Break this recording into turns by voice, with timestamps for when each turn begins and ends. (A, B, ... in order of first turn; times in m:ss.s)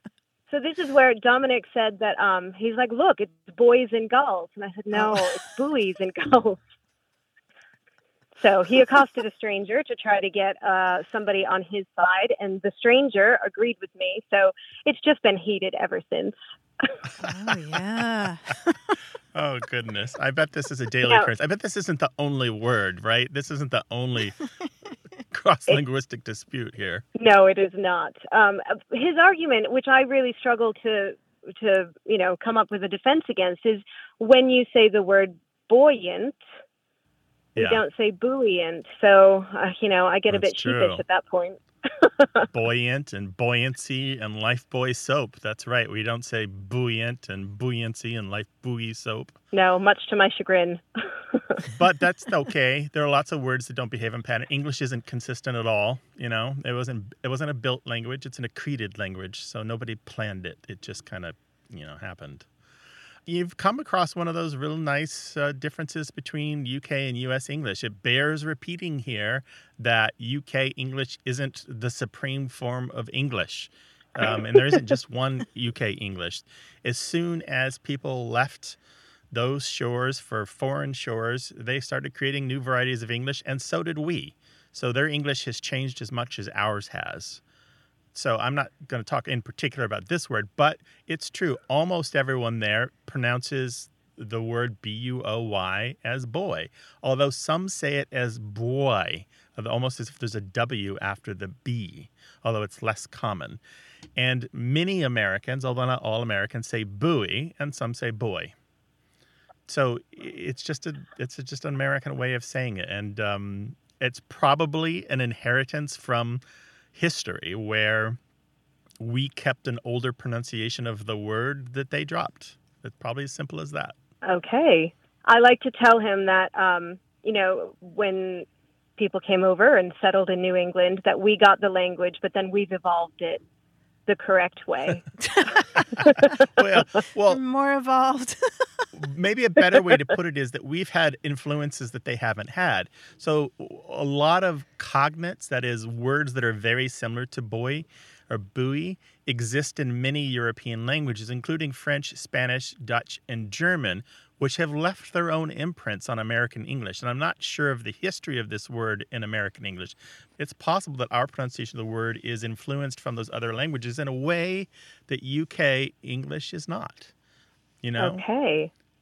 0:00.5-0:06.6 A
0:08.4-0:16.9 A
0:17.2-0:19.0 B
0:19.4-0:24.5 C
0:25.3-0:27.0 C
0:27.2-0:36.4 A
0:37.6-0:37.8 C
0:37.6-0:42.5 A
0:40.3-0:41.0 C
0:42.5-0:49.4 C
0:49.5-0:51.7 A
0:51.7-1:02.5 C
1:03.3-1:18.8 C
1:14.2-1:14.8 A
1:19.3-1:27.4 C
1:28.1-1:43.6 C
1:44.2-1:48.6 C
1:49.7-1:56.4 C
1:57.0-1:58.2 C
1:59.0-2:03.9 C
2:04.2-2:13.4 A
2:14.1-2:15.0 A
2:15.3-2:15.6 B
2:16.0-2:16.4 A
2:16.0-2:17.4 C
2:17.3-2:18.9 B
2:19.0-2:47.1 C
2:47.8-2:48.2 C
2:48.0-2:48.7 A